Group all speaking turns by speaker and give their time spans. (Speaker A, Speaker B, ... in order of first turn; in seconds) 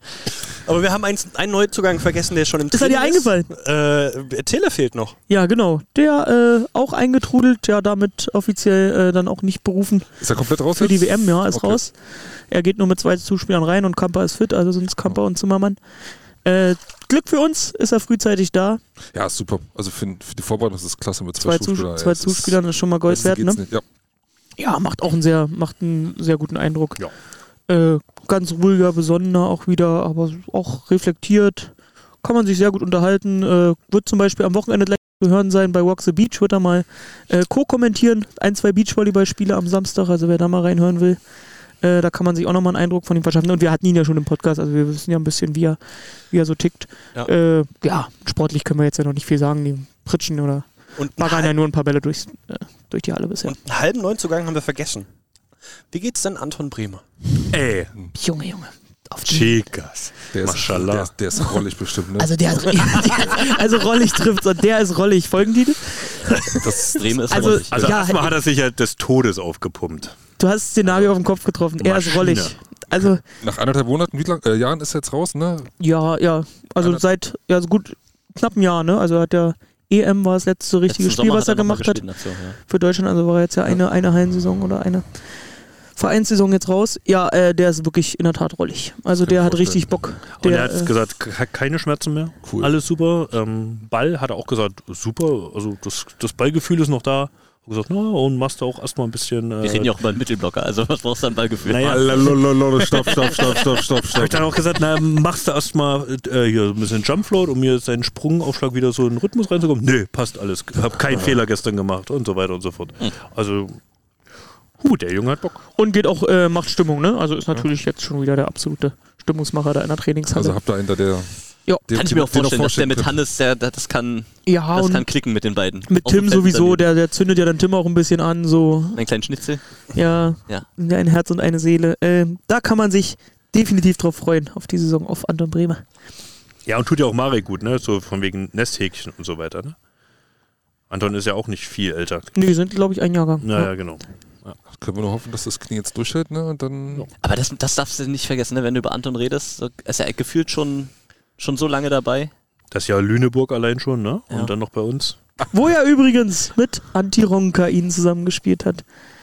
Speaker A: 0.6-5.2, 51.0-51.5, 53.4-55.1, 55.9-57.0
Speaker B: 2.7-3.5, 5.3-10.2, 10.7-11.9, 12.5-15.8, 16.4-18.8, 21.4-23.6, 24.6-27.0, 27.7-41.2, 41.8-53.5, 58.1-59.6, 62.2-66.7, 67.3-68.3, 70.4-73.2, 75.8-82.0, 82.7-85.2, 86.0-90.9, 115.8-120.5, 124.5-125.1, 125.9-129.0, 129.9-135.8, 142.3-143.7, 155.5-158.8
Speaker C: 10.2-11.8, 19.1-23.8, 60.3-63.1, 66.5-67.6, 73.4-75.7, 89.2-89.8, 92.4-92.7, 101.9-104.5, 120.3-121.3, 121.9-123.2, 144.7-147.1
Speaker D: 57.5-57.9, 59.2-61.1, 67.7-70.2, 71.8-72.5, 90.3-99.9, 101.7-113.8, 114.8-115.7, 136.7-139.8, 140.9-142.3, 143.4-144.6, 152.7-155.2
Speaker E: 66.8-68.0, 80.9-82.6, 99.6-102.3, 121.9-126.8, 128.9-129.6, 147.2-152.3